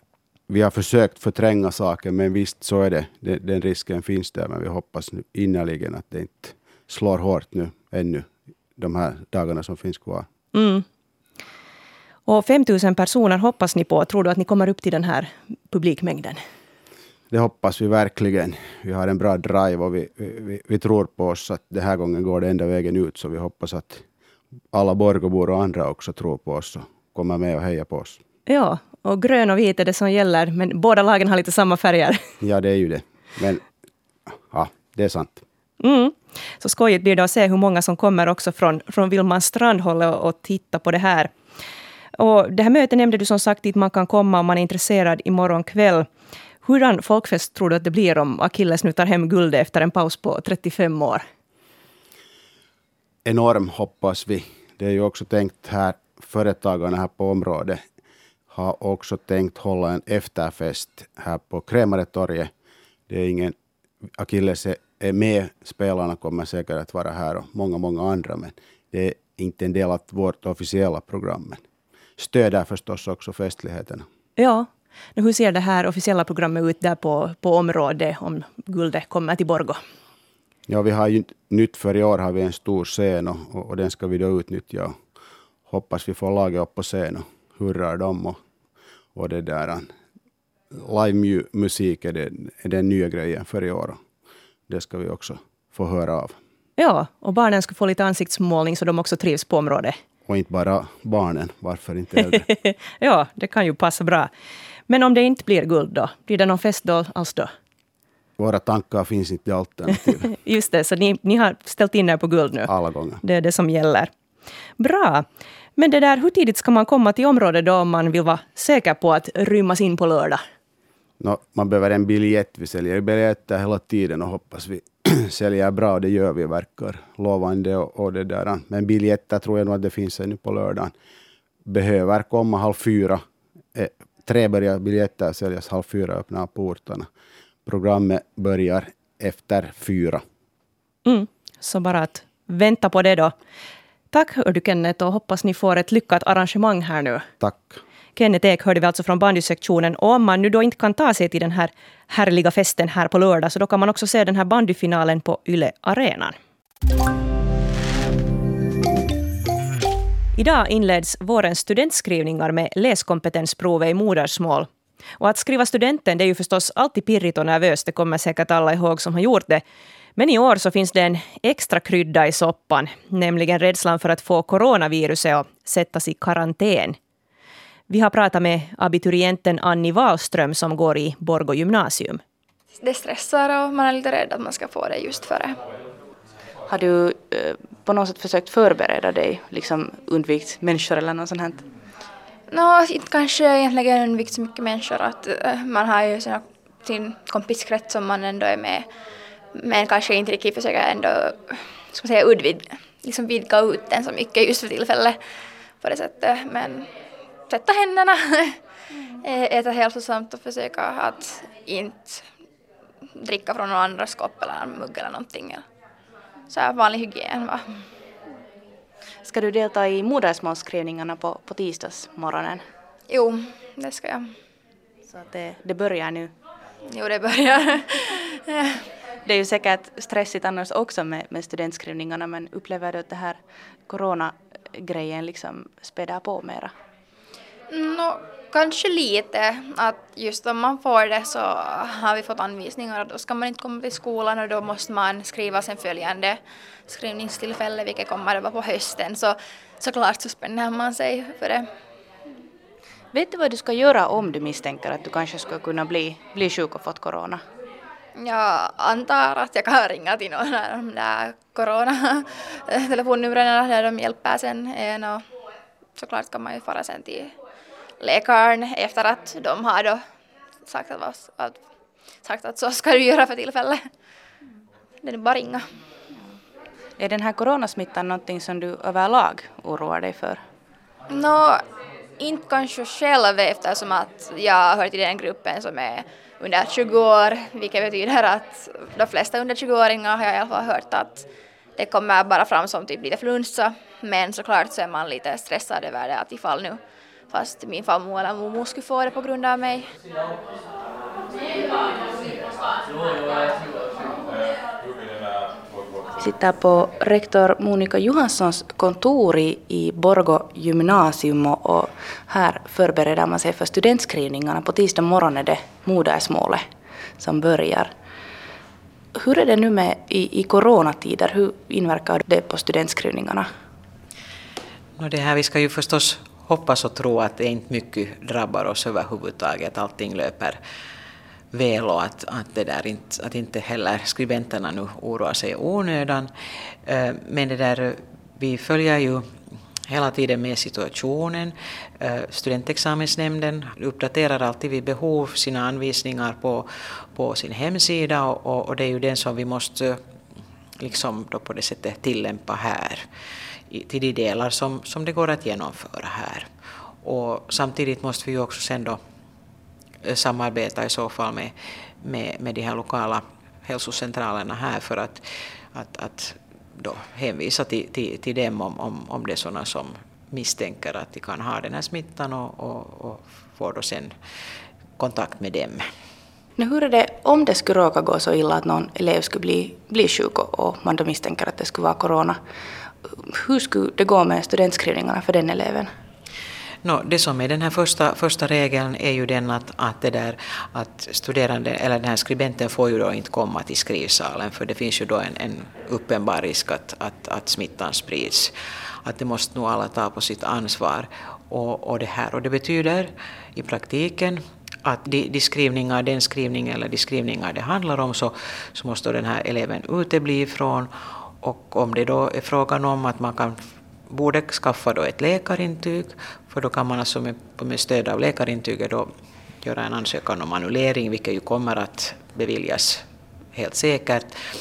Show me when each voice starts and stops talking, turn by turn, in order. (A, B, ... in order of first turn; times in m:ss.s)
0:00.5-0:10.3 A
0:10.5-0:10.8 B
0:12.2-0:16.4 B
0:17.3-0:24.0 A
0:24.7-0:28.2 A
0:28.5-0:32.2 B
0:32.4-0:33.6 A
0:34.5-0:35.4 A
0:35.8-0:41.3 B
0:42.2-0:46.1 B
0:46.6-0:51.2 B
0:53.2-0:57.8 A
0:58.5-1:02.5 A
1:03.1-1:03.5 A
1:04.2-1:11.6 A
1:12.2-1:14.0 A
1:14.4-1:19.8 B
1:20.7-1:24.9 A
1:25.7-1:28.4 A
1:29.1-1:29.9 A
1:30.7-1:34.0 A
1:34.7-1:36.4 A
1:36.8-1:39.9 B
1:40.3-1:42.4 A
1:42.4-1:44.3 B
1:44.9-1:47.5 B
1:48.4-1:50.3 A
1:50.3-1:54.1 B
1:52.7-1:53.2 A
1:54.8-1:55.2 B
1:55.8-2:00.4 B
2:01.2-2:10.9 A
2:11.7-2:13.2 A
2:13.7-2:17.1 A
2:17.6-2:20.2 A
2:21.0-2:23.3 B
2:24.1-2:27.2 B
2:27.4-2:27.8 A
2:28.2-2:36.3 B
2:40.3-2:44.7 B
2:45.2-2:49.6 B
2:50.2-2:57.0 B
2:57.9-3:02.2 B
3:02.8-3:05.6 C
3:06.7-3:11.6 D
3:12.5-3:18.8 C
3:19.5-3:25.2 C
3:25.8-3:26.8 C
3:27.5-3:32.2 C
3:33.2-3:35.6 C
3:36.5-3:37.7 C
3:39.2-3:42.6 D
3:43.1-3:44.2 C
3:45.1-3:46.3 D
3:46.9-3:48.8 C
3:49.2-3:53.4 D
3:53.9-3:56.7 D
3:57.7-4:11.6 C
4:13.1-4:17.4 D
4:18.2-4:25.2 C
4:26.0-4:27.3 C
4:28.0-4:30.0 C
4:30.7-4:31.6 C
4:32.2-4:33.8 C
4:35.0-4:35.6 C
4:37.0-4:40.4 D
4:41.1-4:41.6 C
4:42.2-4:51.2 C
4:51.8-4:56.8 C
4:57.3-4:59.9 C
5:06.2-5:16.6 D
5:17.2-5:17.9 D
5:19.1-5:23.4 D
5:25.0-5:30.6 E
5:31.5-5:36.3 E
5:36.8-5:39.2 E
5:39.9-5:50.0 E
5:50.8-5:53.0 E
5:53.7-5:56.4 E
5:57.0-5:59.0 E
6:00.0-6:14.1 E
6:15.0-6:15.8 E
6:16.6-6:22.4 D
6:23.1-6:25.9 D
6:26.8-6:38.5 E
6:39.0-6:50.9 E
6:51.4-6:59.1 E
6:59.6-7:04.3 E